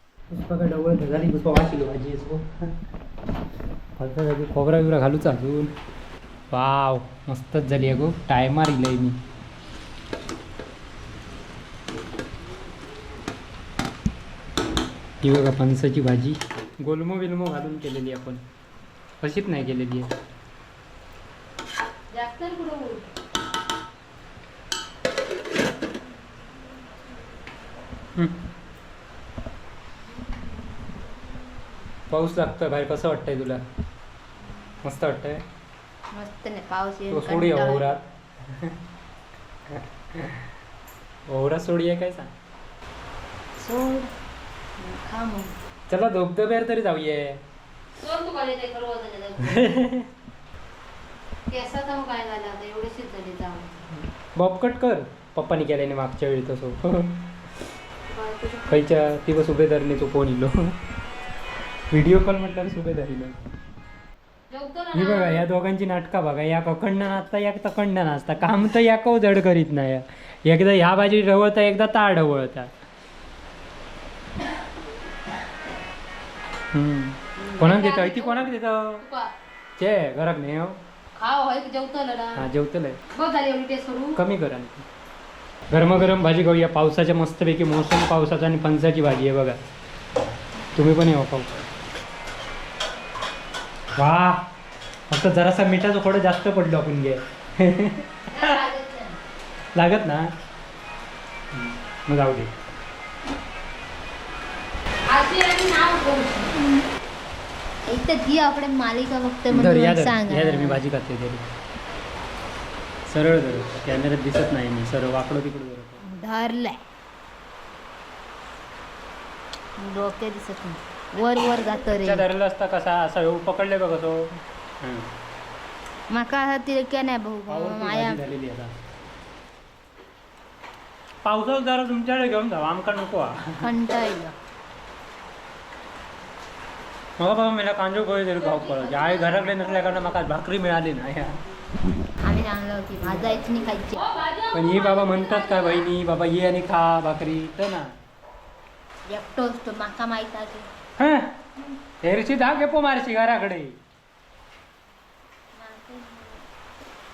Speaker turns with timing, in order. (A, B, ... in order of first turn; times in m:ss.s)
0:00.3-0:02.7 A
0:04.0-0:05.7 A
0:06.5-0:09.2 A
0:15.2-0:18.4 A
0:19.2-0:20.1 A
0:22.1-0:23.1 B
0:32.1-0:33.6 A
0:34.8-0:35.4 A
0:36.1-0:38.0 C
0:37.1-0:38.8 A
0:39.7-0:40.5 A
0:41.3-0:42.3 A
0:43.6-0:44.1 C
0:44.8-0:45.5 C
0:45.9-0:47.4 A
0:48.0-0:49.7 B
0:49.4-0:50.1 A
0:51.5-0:53.7 B
0:53.9-0:57.3 A
0:58.1-0:59.1 B
0:58.7-1:00.8 A
1:01.9-1:03.4 A
1:04.5-1:05.5 B
1:04.9-1:12.7 A
1:16.7-1:19.0 A
1:17.4-1:19.3 B
1:19.8-1:20.8 A
1:21.2-1:22.4 B
1:22.4-1:23.0 A
1:23.1-1:24.2 B
1:24.2-1:24.9 A
1:25.7-1:29.6 A
1:30.8-1:31.5 A
1:34.0-1:34.4 A
1:35.1-1:38.5 A
1:38.3-1:39.2 C
1:39.7-1:40.3 A
1:41.5-1:42.5 A
1:45.1-1:46.6 B
1:47.9-1:50.8 C
1:49.5-1:51.5 A
1:53.1-1:56.0 A
1:56.0-1:56.8 C
1:59.8-2:02.3 C
2:02.0-2:04.3 A
2:04.8-2:05.1 A
2:06.1-2:08.2 C
2:07.5-2:08.7 A
2:11.2-2:13.7 A
2:13.6-2:14.4 C
2:17.2-2:21.4 A
2:18.4-2:20.1 B
2:22.2-2:24.1 C
2:23.9-2:25.9 B
2:24.5-2:27.9 A
2:29.1-2:30.7 C
2:31.0-2:31.3 A
2:32.0-2:33.8 A
2:35.5-2:36.5 C